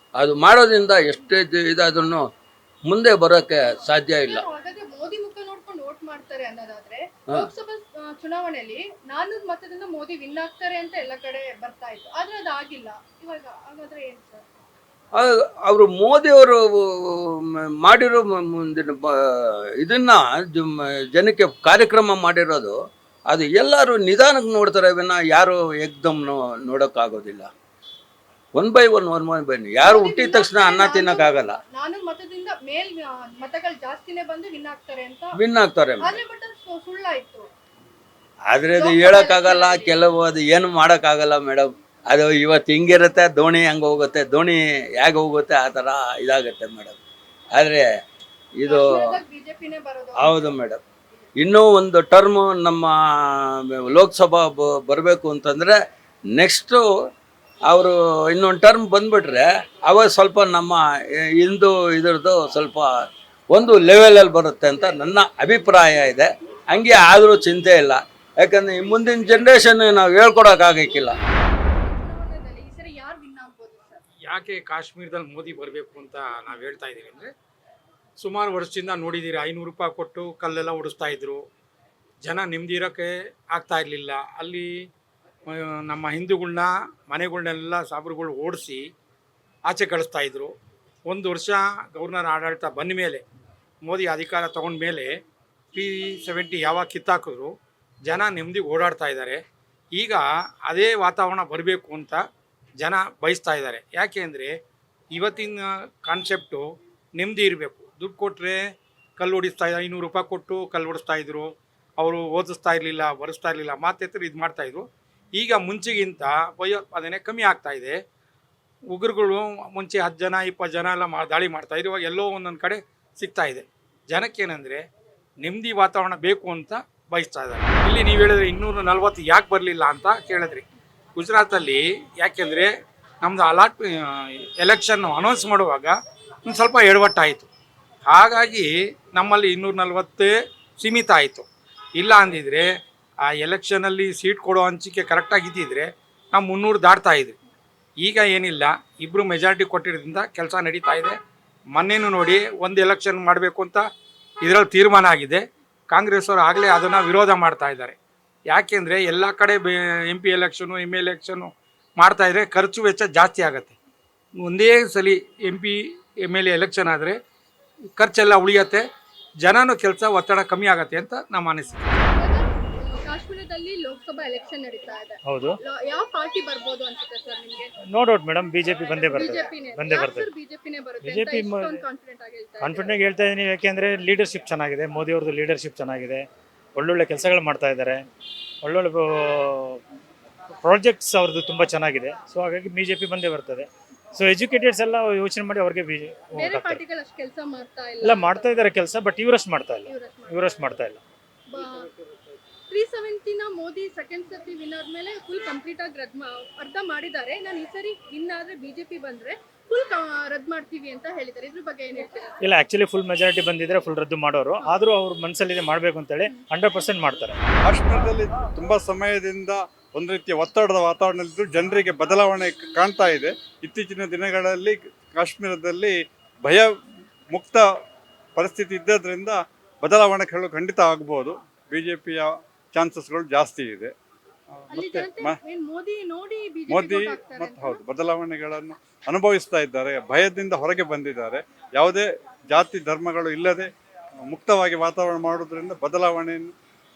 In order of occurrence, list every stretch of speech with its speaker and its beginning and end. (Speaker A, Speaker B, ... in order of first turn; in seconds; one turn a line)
Speaker A: 0.1-2.3
Speaker A: 2.9-4.4
Speaker B: 4.2-14.5
Speaker A: 15.1-22.8
Speaker A: 23.3-27.5
Speaker A: 28.5-31.6
Speaker B: 29.8-35.4
Speaker A: 35.3-36.2
Speaker B: 36.0-37.5
Speaker A: 38.5-47.0
Speaker B: 38.7-40.0
Speaker A: 47.5-47.9
Speaker A: 48.6-49.2
Speaker B: 48.6-50.5
Speaker A: 50.2-50.8
Speaker A: 51.4-55.8
Speaker A: 56.3-57.1
Speaker A: 57.7-62.9
Speaker A: 63.5-71.2
Speaker B: 70.9-74.0
Speaker C: 74.3-77.3
Speaker C: 78.2-81.4
Speaker C: 82.2-84.7
Speaker C: 85.5-88.8
Speaker C: 89.7-90.5
Speaker C: 91.1-93.2
Speaker C: 93.8-95.1
Speaker C: 95.7-97.5
Speaker C: 98.1-99.4
Speaker C: 100.0-102.2
Speaker C: 102.8-104.5
Speaker C: 105.1-106.6
Speaker C: 107.2-108.6
Speaker C: 109.2-114.8
Speaker C: 115.3-118.0
Speaker C: 118.9-124.8
Speaker C: 125.4-130.6
Speaker C: 131.2-132.7
Speaker C: 133.2-135.9
Speaker C: 136.5-137.5
Speaker C: 138.1-141.5
Speaker C: 142.0-142.7
Speaker C: 143.3-147.3
Speaker C: 148.0-151.2
Speaker C: 151.7-153.8
Speaker C: 154.4-157.9
Speaker C: 158.5-163.8
Speaker C: 164.4-167.2
Speaker C: 168.0-168.8
Speaker C: 169.4-172.0
Speaker B: 172.1-177.7
Speaker D: 175.2-175.6
Speaker D: 177.9-180.3
Speaker B: 178.9-183.0
Speaker D: 181.0-181.8
Speaker D: 182.6-188.0
Speaker D: 188.6-189.8
Speaker D: 190.6-196.8
Speaker B: 196.3-198.7
Speaker D: 198.0-201.0
Speaker B: 199.8-200.6
Speaker B: 201.5-201.9
Speaker B: 202.7-212.4
Speaker D: 212.4-217.4
Speaker E: 217.7-226.7
Speaker E: 227.3-227.6
Speaker E: 228.3-233.9
Speaker E: 234.6-235.4
Speaker B: 234.7-237.8
Speaker E: 236.7-243.7
Speaker E: 244.3-246.5